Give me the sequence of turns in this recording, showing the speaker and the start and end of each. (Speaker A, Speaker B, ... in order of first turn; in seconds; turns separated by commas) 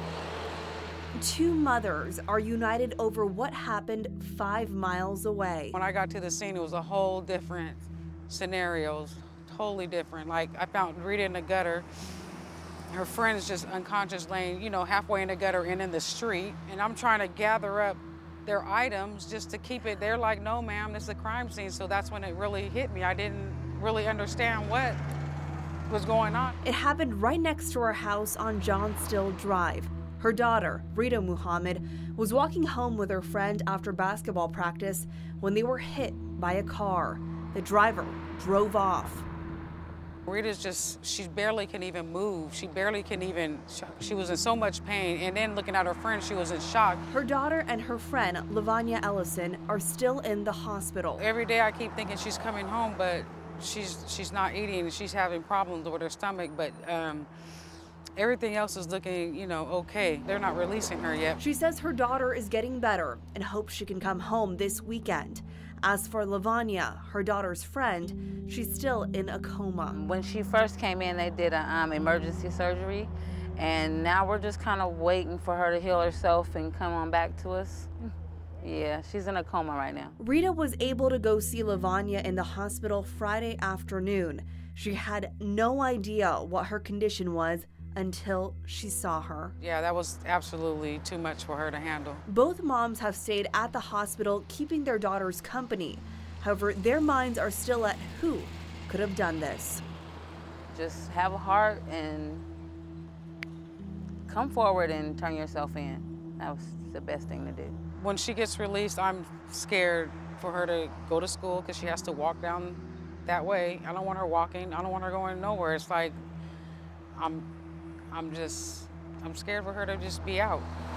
Speaker A: 1.2-5.8, Speaker B: 5.7-11.8, Speaker B: 12.9-25.0, Speaker B: 25.9-26.6, Speaker A: 26.6-39.3, Speaker B: 40.3-47.0, Speaker A: 47.1-51.3, Speaker B: 51.2-57.3, Speaker B: 58.2-61.4, Speaker A: 61.4-70.0, Speaker C: 69.9-77.9, Speaker C: 78.6-80.2, Speaker A: 80.2-89.5, Speaker B: 89.6-92.2, Speaker A: 92.3-99.8, Speaker C: 100.7-102.4, Speaker C: 104.3-107.8, Speaker B: 108.0-116.2, Speaker B: 117.1-117.5, Speaker B: 118.1-120.7